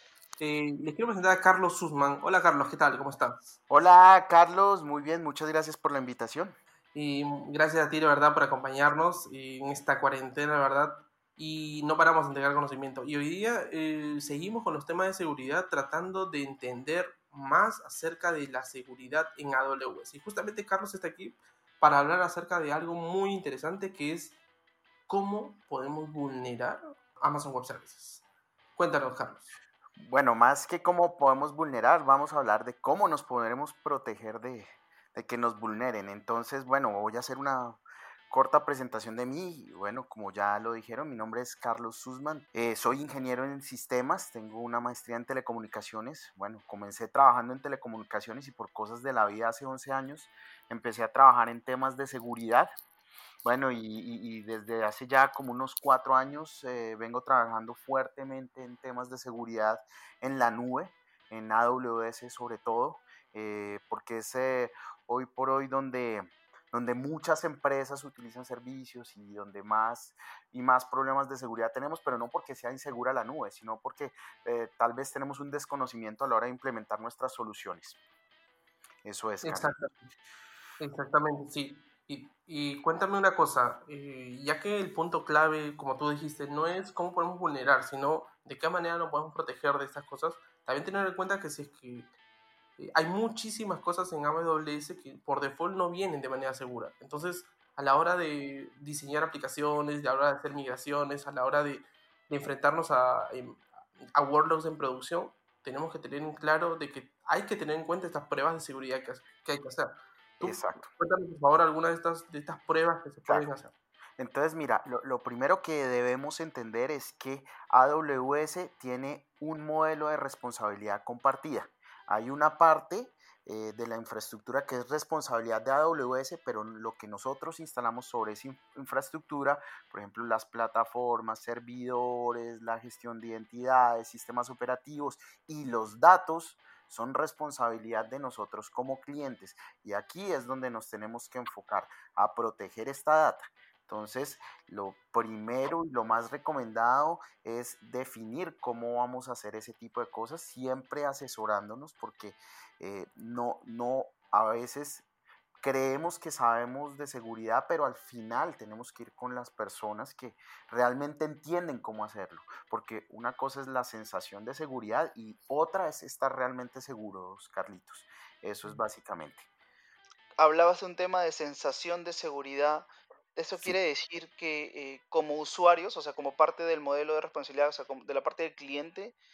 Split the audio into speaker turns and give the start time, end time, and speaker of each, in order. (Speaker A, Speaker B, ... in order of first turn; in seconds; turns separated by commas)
Speaker A: 0.4-3.5, Speaker B: 3.7-6.5, Speaker A: 6.9-24.4, Speaker A: 25.1-28.2, Speaker A: 28.8-29.5, Speaker B: 30.0-52.7, Speaker B: 53.4-78.0, Speaker B: 79.0-79.7, Speaker A: 79.4-80.1, Speaker A: 80.8-92.1, Speaker A: 92.8-113.7, Speaker B: 110.4-110.9, Speaker B: 114.2-155.0, Speaker B: 155.6-169.4, Speaker C: 170.4-179.2